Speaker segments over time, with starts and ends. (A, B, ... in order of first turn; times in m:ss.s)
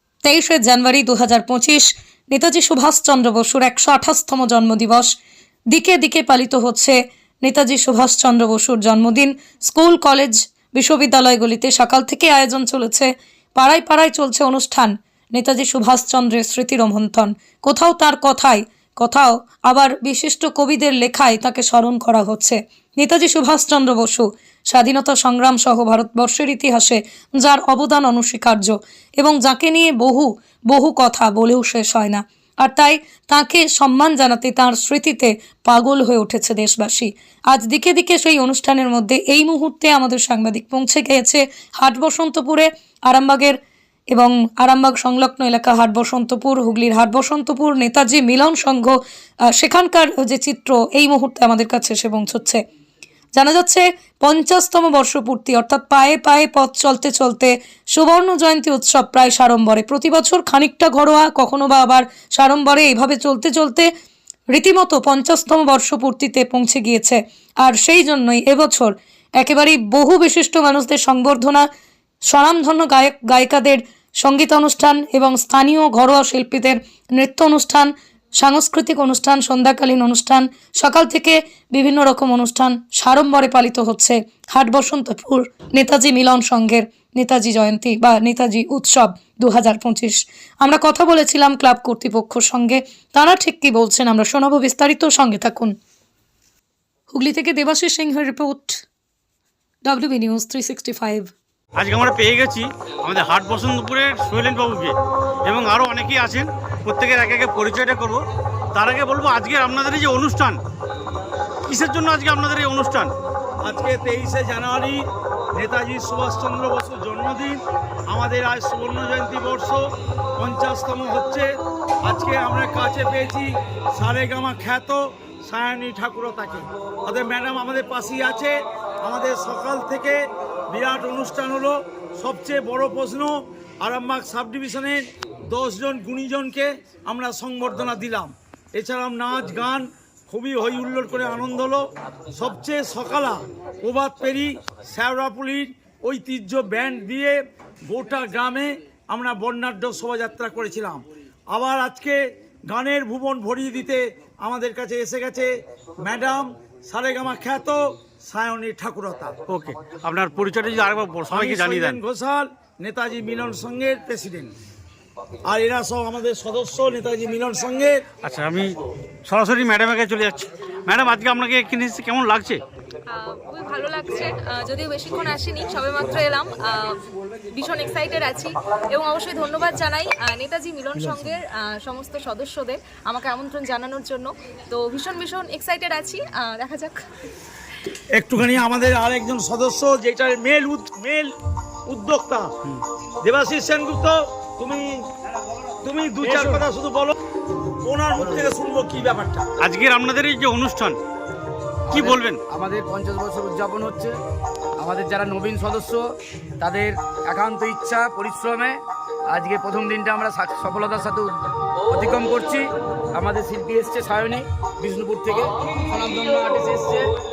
0:00.2-0:05.1 A
0:05.7-0:43.6 A
0:44.1-0:52.6 A
0:53.3-1:03.9 A
1:04.5-1:11.7 A
1:12.3-1:35.7 A
1:37.1-1:38.8 A
1:39.8-1:41.3 A
1:41.8-1:48.2 B
1:48.7-1:50.6 B
1:51.6-1:53.1 B
1:53.6-1:55.0 C
1:55.6-1:59.8 C
2:00.4-2:01.5 C
2:02.0-2:10.2 C
2:10.7-2:21.8 C
2:22.3-2:32.2 C
2:32.7-2:35.5 C
2:36.0-2:39.3 C
2:39.5-2:42.0 B
2:41.3-2:44.5 C
2:45.5-2:48.0 C
2:48.2-2:52.6 B
2:53.1-2:57.0 D
2:57.5-3:07.0 D
3:08.2-3:11.3 C
3:11.9-3:12.5 C
3:13.2-3:14.9 C
3:15.8-3:17.2 C
3:17.8-3:19.4 C
3:18.2-3:18.5 E
3:19.6-3:21.0 B
3:21.9-3:24.1 E
3:21.9-3:22.4 B
3:24.8-3:26.0 E
3:26.6-3:31.4 E
3:31.9-3:37.1 E